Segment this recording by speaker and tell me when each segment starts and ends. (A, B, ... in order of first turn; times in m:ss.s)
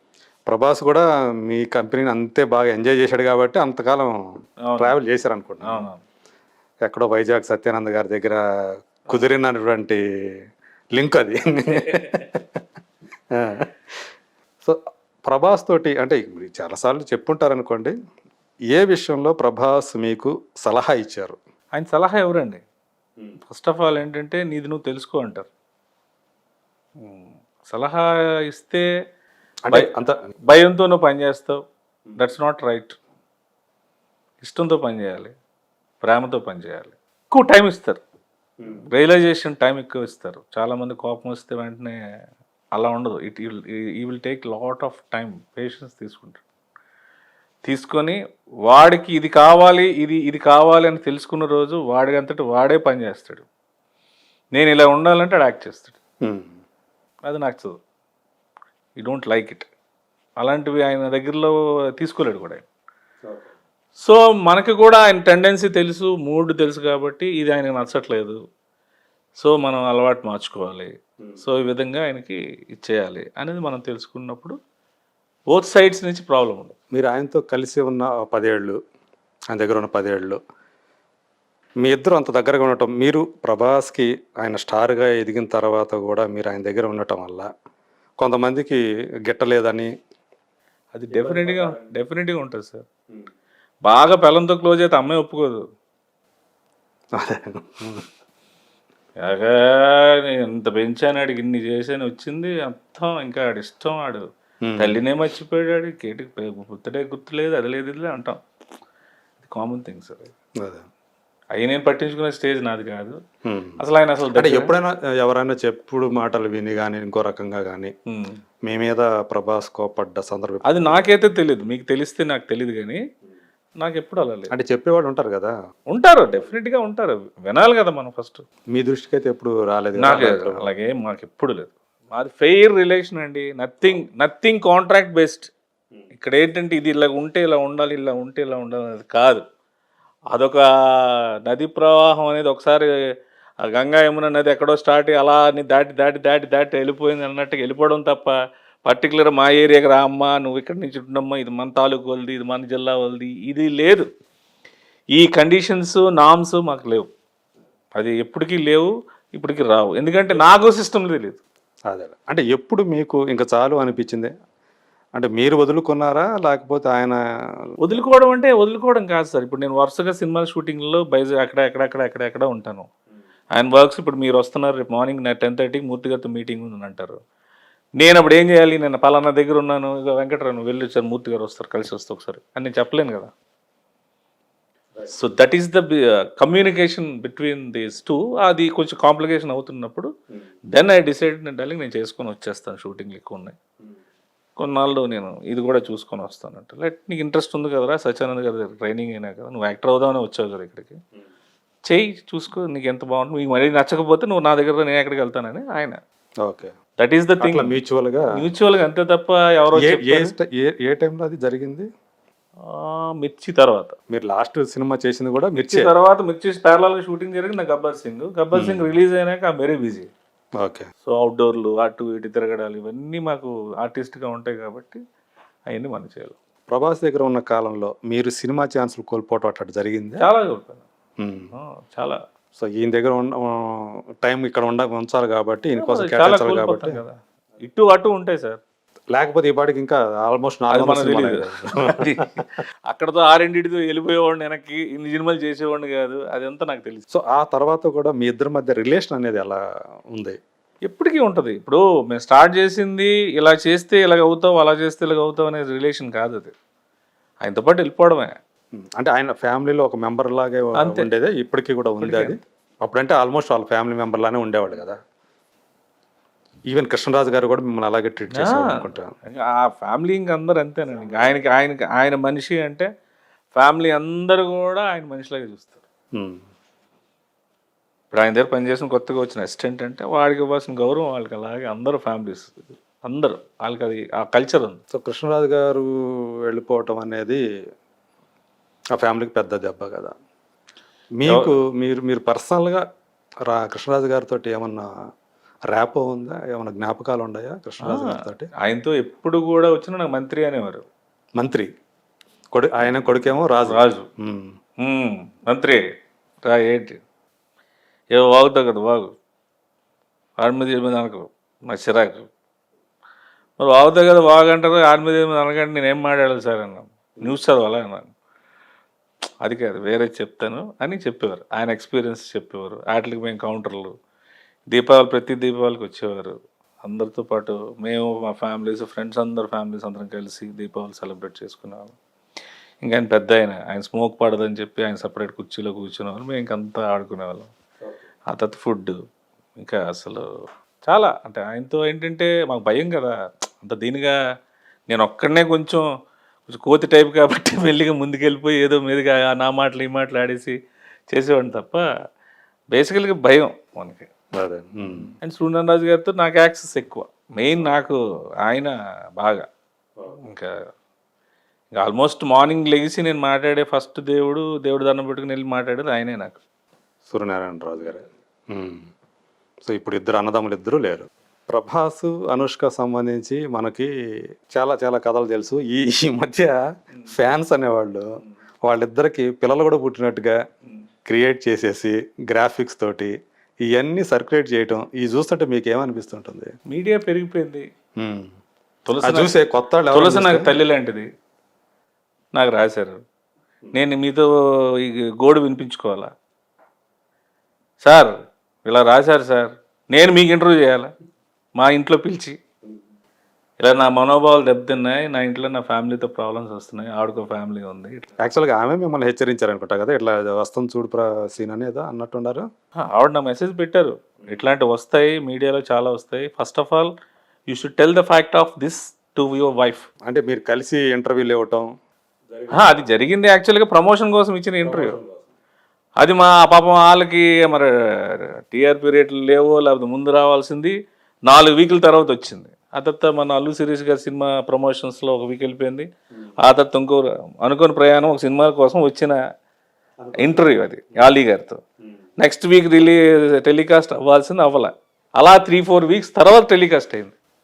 0:00.5-0:04.1 A
0:04.6-0:05.0 B
0:04.8-0:05.9 A
0:05.6-0:06.0 B
0:06.8-0:08.4 A
0:09.1-0:10.0 A
0:11.0-0:12.5 A
0:11.9-0:12.2 B
0:13.4-0:13.7 A
0:14.6-0:17.9 A
0:18.7-0:21.4 A
0:21.8-0:22.6 B
0:23.5-0:25.5 B
0:27.0-0:28.8 B
0:29.7-0:30.1 A
0:30.5-0:31.6 B
0:32.2-0:33.0 B
0:34.4-0:35.3 B
0:36.0-0:38.0 B
0:38.9-0:42.0 B
0:42.8-0:46.4 B
0:47.7-0:53.4 B
0:54.6-0:56.0 B
0:56.2-0:56.6 A
0:57.3-0:57.8 B
0:59.0-0:59.7 B
1:00.4-1:02.6 B
1:04.0-1:08.4 B
1:09.4-1:14.6 B
1:15.5-1:16.8 B
1:16.9-1:18.8 A
1:19.5-1:20.4 A
1:21.8-1:27.5 A
1:28.2-1:29.9 A
1:30.9-1:32.9 B
1:31.1-1:31.7 A
1:33.9-1:35.6 B
1:37.2-1:38.0 A
1:39.2-1:44.2 B
1:44.6-1:45.0 A
1:44.8-1:48.4 B
1:49.4-1:50.3 B
1:51.6-1:53.2 B
1:53.5-1:53.8 A
1:53.8-1:54.7 B
1:54.4-1:57.9 A
1:58.1-1:58.4 B
1:58.7-2:01.0 A
2:00.6-2:03.0 B
2:03.8-2:04.5 B
2:04.5-2:05.5 A
2:05.9-2:08.4 B
2:08.7-2:10.7 A
2:10.0-2:15.5 B
2:16.2-2:19.4 B
2:20.3-2:22.9 B
2:23.6-2:34.1 B
2:35.2-2:37.1 B
2:38.0-2:41.4 B
2:41.9-2:44.3 A
2:45.2-2:47.2 A
2:47.8-2:52.9 B
2:53.6-2:57.2 B
2:58.0-3:03.3 B
3:05.1-3:10.1 B
3:10.7-3:13.6 B
3:14.6-3:21.0 B
3:21.9-3:26.0 B
3:26.4-3:26.7 A
3:27.0-3:27.7 B
3:27.4-3:28.3 A
3:28.4-3:30.3 B
3:29.8-3:31.9 A
3:32.7-3:34.0 B
3:34.1-3:35.9 A
3:35.6-3:40.1 B
3:38.5-3:38.8 A
3:40.6-3:40.9 A
3:41.0-3:45.0 B
3:45.7-3:46.4 B
3:46.7-3:50.2 A
3:50.2-3:50.8 B
3:51.2-3:51.5 A
3:51.6-3:52.2 B
3:52.6-3:57.0 A
3:55.8-3:58.6 B
3:59.1-4:02.1 A
4:00.7-4:07.0 B
4:07.1-4:09.6 A
4:10.8-4:16.5 B
4:17.4-4:18.4 B
4:18.8-4:25.0 A
4:20.8-4:21.1 B
4:22.0-4:22.3 B
4:26.7-4:29.1 A
4:28.3-4:32.9 B
4:33.5-4:35.8 B
4:36.2-4:36.4 A
4:38.1-4:44.8 B
4:44.9-4:45.9 A
4:46.5-4:47.4 A
4:49.0-4:50.2 A
4:51.2-4:52.8 A
4:51.3-4:51.5 B
4:53.5-4:54.9 A
4:55.7-4:58.5 A
4:57.9-5:00.8 B
5:01.4-5:01.7 A
5:02.6-5:04.5 A
5:03.6-5:04.1 B
5:04.8-5:05.8 B
5:06.4-5:07.0 B
5:08.1-5:09.1 B
5:10.4-5:12.3 B
5:13.6-5:18.1 B
5:19.4-5:23.9 B
5:24.7-5:32.0 B
5:32.8-5:37.5 B
5:38.3-5:39.0 B
5:39.6-5:40.3 B
5:40.9-5:44.2 B
5:44.9-5:45.9 B
5:46.5-5:50.6 B
5:51.1-5:51.9 B
5:52.7-5:54.1 B
5:54.4-5:55.1 A
5:55.2-5:59.5 B
6:00.1-6:00.5 B
6:01.7-6:06.4 B
6:07.1-6:08.9 A
6:09.7-6:13.9 A
6:14.6-6:16.6 A
6:17.1-6:18.0 A
6:18.7-6:20.4 A
6:21.1-6:23.1 A
6:23.6-6:26.5 A
6:26.7-6:27.7 B
6:28.0-6:28.3 A
6:28.9-6:31.1 B
6:29.0-6:30.5 A
6:32.3-6:33.0 B
6:33.7-6:36.1 B
6:37.8-6:38.1 B
6:38.6-6:40.9 B
6:41.6-6:42.4 B
6:43.6-6:48.1 B
6:48.2-6:52.5 A
6:52.8-6:56.9 B
6:57.5-6:59.9 B
7:00.1-7:01.7 A
7:02.3-7:02.8 A
7:02.5-7:05.0 B
7:04.6-7:05.3 A
7:06.0-7:10.8 B
7:11.3-7:15.9 B
7:16.4-7:19.2 B
7:20.0-7:20.5 A
7:20.2-7:21.6 B
7:22.2-7:27.1 B